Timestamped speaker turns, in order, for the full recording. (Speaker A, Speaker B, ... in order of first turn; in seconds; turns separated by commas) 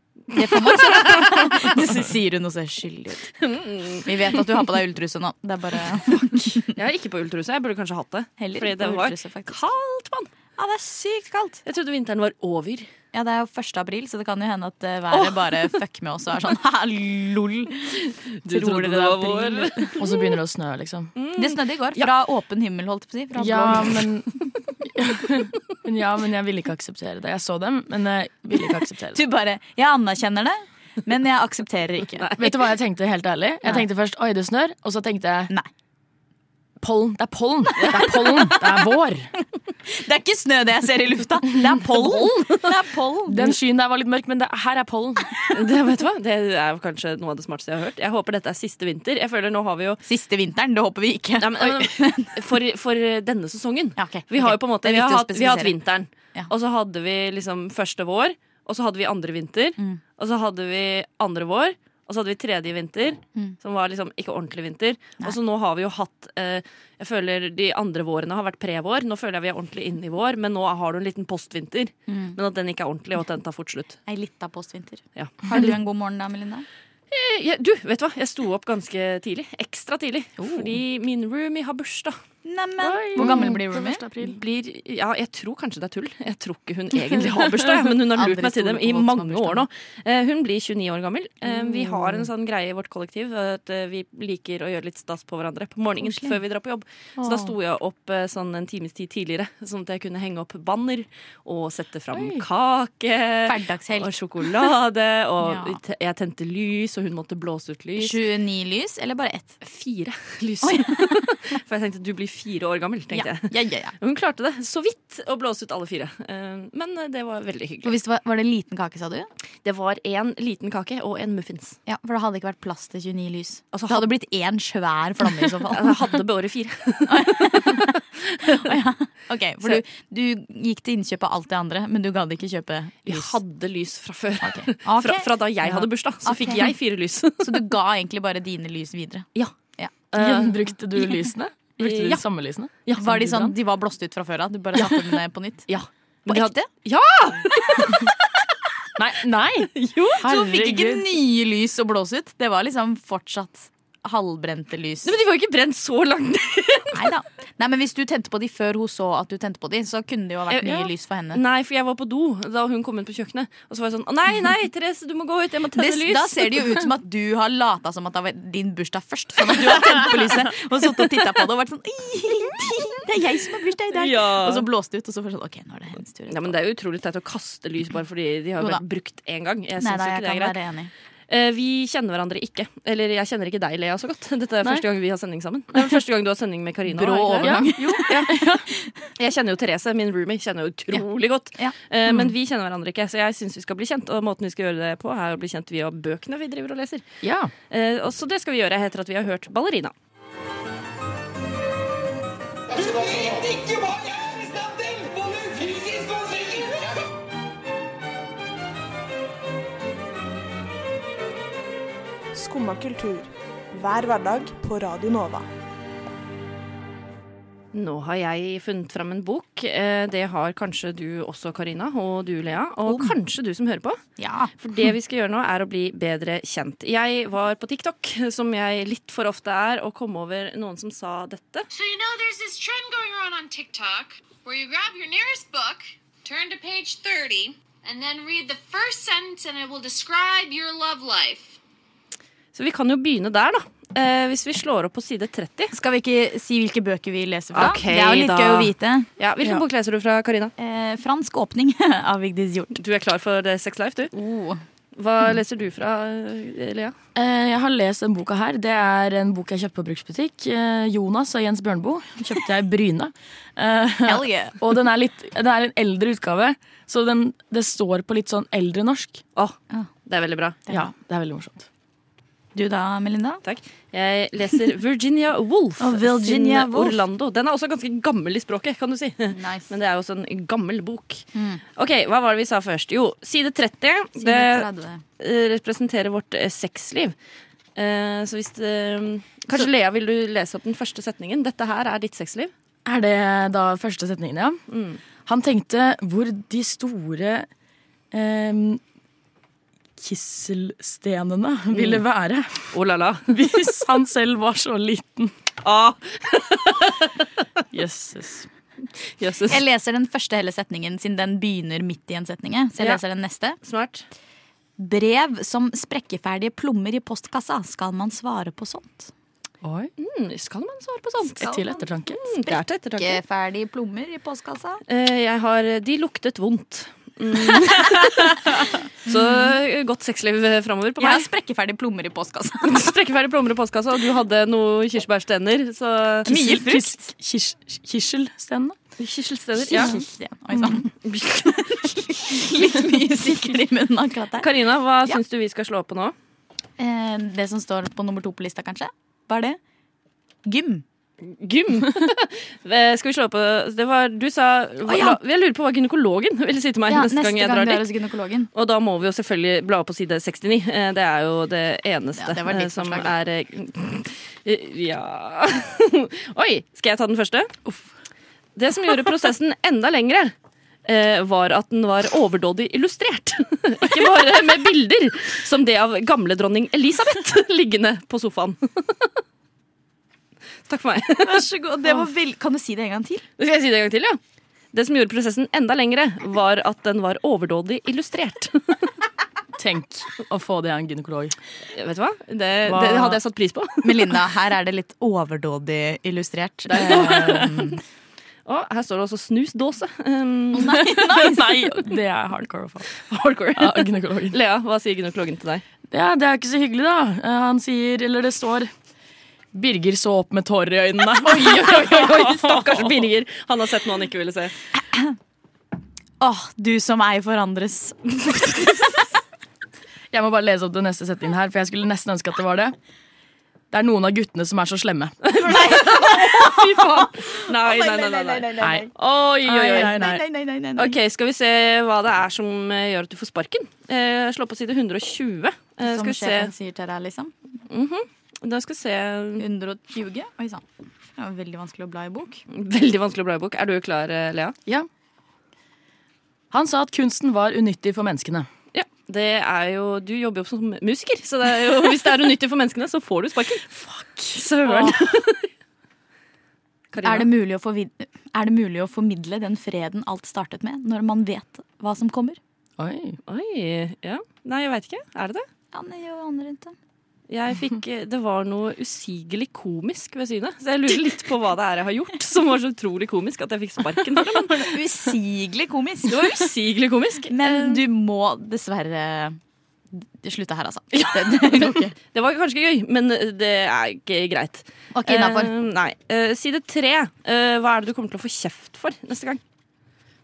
Speaker A: 0.3-3.3, Speaker B: 0.3-1.8, Speaker B: 3.4-4.6, Speaker A: 4.0-6.7, Speaker B: 6.7-10.3, Speaker A: 8.4-9.7, Speaker A: 10.6-11.6, Speaker B: 11.7-12.9, Speaker A: 13.1-19.9, Speaker B: 15.1-15.8, Speaker B: 18.4-20.1, Speaker C: 20.0-21.1, Speaker B: 21.2-22.1, Speaker A: 21.4-23.9, Speaker C: 23.4-29.2, Speaker A: 29.1-32.3, Speaker B: 32.2-32.6, Speaker C: 32.4-35.5, Speaker C: 36.8-39.3, Speaker B: 37.8-38.1, Speaker A: 38.2-38.7, Speaker A: 39.9-43.5, Speaker B: 41.9-42.7, Speaker C: 43.3-45.3, Speaker B: 45.5-50.0, Speaker A: 50.0-52.3, Speaker B: 51.4-74.0, Speaker A: 54.0-55.8, Speaker A: 72.1-72.4, Speaker A: 74.1-76.6, Speaker B: 75.2-75.6, Speaker B: 77.1-82.2, Speaker A: 80.4-80.7, Speaker A: 82.4-84.0, Speaker C: 82.8-84.4, Speaker B: 83.2-83.5, Speaker B: 84.2-108.2, Speaker A: 88.1-89.6, Speaker C: 91.4-92.3, Speaker A: 96.0-96.3, Speaker C: 97.2-97.5, Speaker C: 102.1-102.4, Speaker A: 103.5-104.1, Speaker A: 105.4-105.8, Speaker A: 108.0-109.6, Speaker B: 109.6-117.9, Speaker A: 110.6-111.2, Speaker A: 113.1-113.9, Speaker A: 117.8-119.3, Speaker B: 119.6-121.8, Speaker A: 121.8-126.2, Speaker B: 123.7-124.0, Speaker B: 125.3-127.9, Speaker A: 127.1-133.3, Speaker B: 128.4-128.7, Speaker B: 133.1-137.7, Speaker A: 134.4-136.7, Speaker A: 137.4-139.9, Speaker B: 140.1-141.2, Speaker C: 140.2-143.5, Speaker B: 141.8-142.2, Speaker A: 143.0-145.7, Speaker C: 144.8-145.2, Speaker B: 145.7-148.1, Speaker A: 146.3-146.7, Speaker C: 149.0-151.1, Speaker B: 149.8-150.2, Speaker A: 150.2-155.1, Speaker B: 155.0-157.1, Speaker A: 156.9-161.4, Speaker B: 160.5-166.8, Speaker A: 165.7-176.6, Speaker B: 169.6-170.2, Speaker B: 173.9-174.7, Speaker B: 176.3-180.5, Speaker A: 179.8-180.9, Speaker B: 181.3-188.3, Speaker A: 186.9-188.9, Speaker C: 187.3-188.6, Speaker B: 189.2-197.0, Speaker C: 192.1-192.3, Speaker C: 197.2-197.5, Speaker B: 197.7-199.9, Speaker D: 212.3-215.5, Speaker B: 217.7-224.0, Speaker A: 222.9-223.1, Speaker A: 224.2-224.5, Speaker B: 224.6-231.7, Speaker E: 231.7-241.6, Speaker B: 242.5-245.7, Speaker A: 245.7-249.1, Speaker B: 247.5-250.5, Speaker A: 250.6-252.8, Speaker B: 252.7-254.1, Speaker A: 254.1-254.6, Speaker B: 255.0-256.9, Speaker C: 257.1-269.2, Speaker A: 264.1-264.6, Speaker B: 269.4-270.6, Speaker C: 270.7-271.7, Speaker A: 272.5-273.4, Speaker B: 273.4-281.2, Speaker A: 275.8-276.9, Speaker A: 279.3-279.7, Speaker A: 281.4-281.6, Speaker B: 281.8-284.7, Speaker A: 284.2-285.0, Speaker B: 285.2-287.1, Speaker B: 287.8-292.5, Speaker C: 292.9-294.6, Speaker B: 294.7-295.0, Speaker C: 295.2-297.5, Speaker C: 298.1-298.8, Speaker C: 300.0-302.7, Speaker B: 301.7-302.0, Speaker B: 302.7-303.4, Speaker C: 303.3-305.3, Speaker B: 305.6-307.2, Speaker C: 307.7-308.5, Speaker B: 309.2-309.6, Speaker A: 309.5-313.6, Speaker B: 313.6-314.0, Speaker A: 314.8-319.1, Speaker C: 319.6-319.9, Speaker B: 320.0-321.5, Speaker C: 321.4-322.2, Speaker A: 321.4-321.8, Speaker B: 322.1-323.2, Speaker A: 322.5-324.8, Speaker B: 324.9-331.3, Speaker A: 331.0-332.9, Speaker B: 332.6-336.5, Speaker A: 336.2-337.1, Speaker C: 336.3-338.8, Speaker B: 339.0-340.0, Speaker A: 339.6-344.5, Speaker B: 341.0-342.1, Speaker B: 344.4-346.1, Speaker A: 346.8-349.6, Speaker A: 350.4-350.8, Speaker B: 351.2-357.9, Speaker A: 354.9-355.2, Speaker A: 356.9-358.5, Speaker B: 358.5-367.5, Speaker A: 362.2-363.1, Speaker B: 368.6-370.3, Speaker B: 370.9-379.1, Speaker B: 380.7-381.5, Speaker A: 381.2-383.2, Speaker B: 383.4-384.2, Speaker B: 384.7-388.9, Speaker C: 389.6-391.4, Speaker B: 391.7-394.1, Speaker C: 392.6-393.2, Speaker A: 393.8-397.8, Speaker C: 396.7-397.6, Speaker B: 396.7-397.7, Speaker B: 398.5-400.9, Speaker A: 400.6-401.8, Speaker C: 400.6-403.0, Speaker B: 403.0-405.6, Speaker C: 403.6-404.4, Speaker C: 405.9-408.7, Speaker C: 409.5-413.0, Speaker B: 411.2-414.5, Speaker A: 416.2-418.9, Speaker C: 420.1-422.8, Speaker C: 423.7-425.2, Speaker B: 425.2-430.0, Speaker A: 425.4-428.9, Speaker C: 428.6-428.9, Speaker C: 429.5-430.2, Speaker A: 429.5-431.0, Speaker B: 430.8-436.5, Speaker A: 435.8-437.3, Speaker B: 437.7-439.4, Speaker A: 439.4-440.6, Speaker A: 441.2-442.4, Speaker B: 442.5-444.6, Speaker C: 446.5-448.5, Speaker B: 448.7-453.8, Speaker C: 453.9-454.4, Speaker B: 454.3-455.5, Speaker A: 454.7-455.0, Speaker B: 456.9-457.3, Speaker A: 457.0-462.4, Speaker C: 462.8-463.2, Speaker B: 463.3-465.4, Speaker A: 465.7-466.7, Speaker B: 467.3-474.8, Speaker A: 474.5-476.5, Speaker B: 476.1-477.8, Speaker A: 477.3-479.4, Speaker A: 479.9-481.9, Speaker B: 480.9-489.4, Speaker A: 484.9-485.5